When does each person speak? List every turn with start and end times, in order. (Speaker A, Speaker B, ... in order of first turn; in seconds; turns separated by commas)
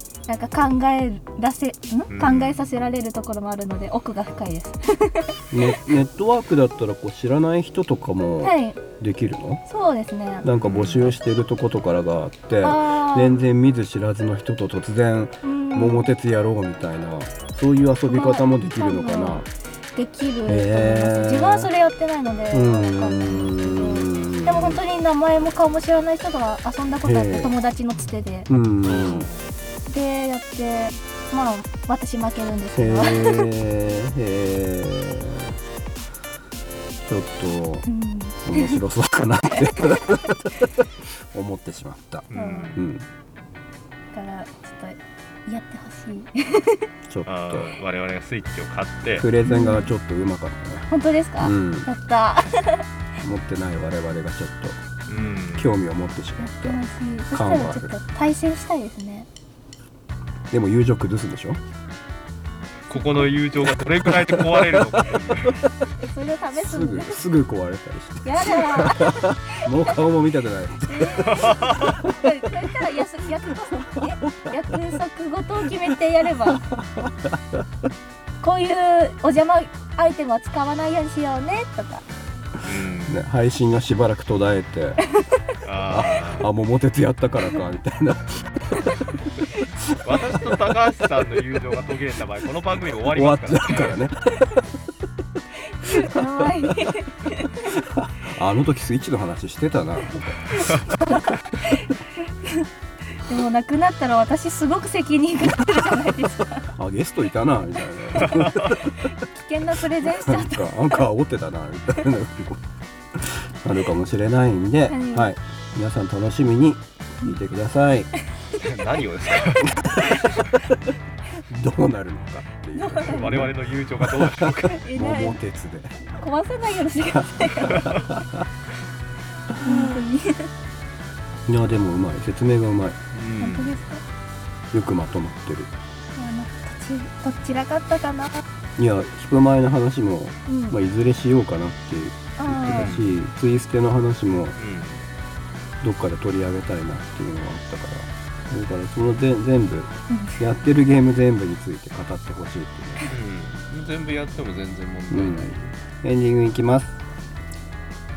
Speaker A: 0.3-5.3, Speaker B: 2.1-2.7, Speaker C: 5.5-9.6, Speaker A: 8.4-8.8, Speaker A: 9.7-10.5, Speaker C: 10.4-19.5, Speaker B: 10.6-11.1, Speaker A: 12.6-13.4, Speaker A: 15.4-16.1, Speaker A: 18.1-28.5, Speaker C: 20.5-21.7, Speaker C: 22.5-24.8, Speaker C: 27.0-27.5, Speaker C: 28.5-29.3, Speaker B: 28.8-29.5, Speaker A: 29.9-33.5, Speaker C: 32.8-35.5, Speaker C: 37.0-37.9, Speaker A: 37.9-38.8, Speaker C: 38.4-43.0, Speaker B: 42.3-42.9, Speaker A: 42.3-42.7, Speaker A: 44.1-46.9, Speaker C: 47.1-47.7, Speaker B: 47.2-49.3, Speaker C: 49.2-50.9, Speaker A: 49.4-49.9, Speaker A: 50.9-52.8, Speaker C: 51.4-51.9, Speaker C: 53.2-54.8, Speaker B: 55.1-55.7, Speaker C: 55.5-58.0, Speaker A: 56.4-59.3, Speaker C: 60.5-61.6, Speaker B: 62.9-65.7, Speaker C: 64.1-65.0, Speaker A: 66.0-67.2, Speaker C: 66.5-72.2, Speaker A: 68.2-70.0, Speaker A: 70.9-76.6, Speaker B: 71.2-72.0, Speaker C: 76.7-77.6, Speaker A: 78.4-82.0, Speaker B: 82.6-83.2, Speaker C: 83.1-85.0, Speaker A: 85.1-85.5, Speaker B: 85.6-86.5, Speaker C: 85.9-89.1, Speaker B: 90.0-94.0, Speaker C: 93.1-94.6, Speaker A: 95.7-97.8, Speaker C: 95.8-96.8, Speaker C: 97.7-101.2, Speaker A: 101.0-106.7, Speaker C: 106.8-109.0, Speaker A: 108.2-111.0, Speaker B: 108.2-108.7, Speaker C: 110.0-112.6, Speaker C: 113.2-118.1, Speaker A: 114.9-115.3, Speaker B: 118.5-119.8, Speaker C: 119.6-120.6, Speaker A: 120.0-120.6, Speaker C: 121.5-123.5, Speaker A: 122.8-123.5, Speaker B: 123.0-124.7, Speaker C: 124.0-126.0, Speaker A: 124.7-125.4, Speaker A: 126.1-127.9, Speaker C: 127.0-128.4, Speaker A: 129.6-130.5, Speaker C: 131.5-133.0, Speaker B: 133.1-133.7, Speaker A: 133.4-134.0, Speaker C: 134.7-135.7, Speaker A: 136.1-138.4, Speaker C: 138.8-144.6, Speaker A: 140.5-140.8, Speaker A: 142.4-142.9, Speaker B: 142.7-143.2, Speaker B: 144.6-145.0, Speaker C: 145.8-153.1, Speaker A: 150.1-150.4, Speaker B: 153.1-155.7, Speaker C: 155.1-157.0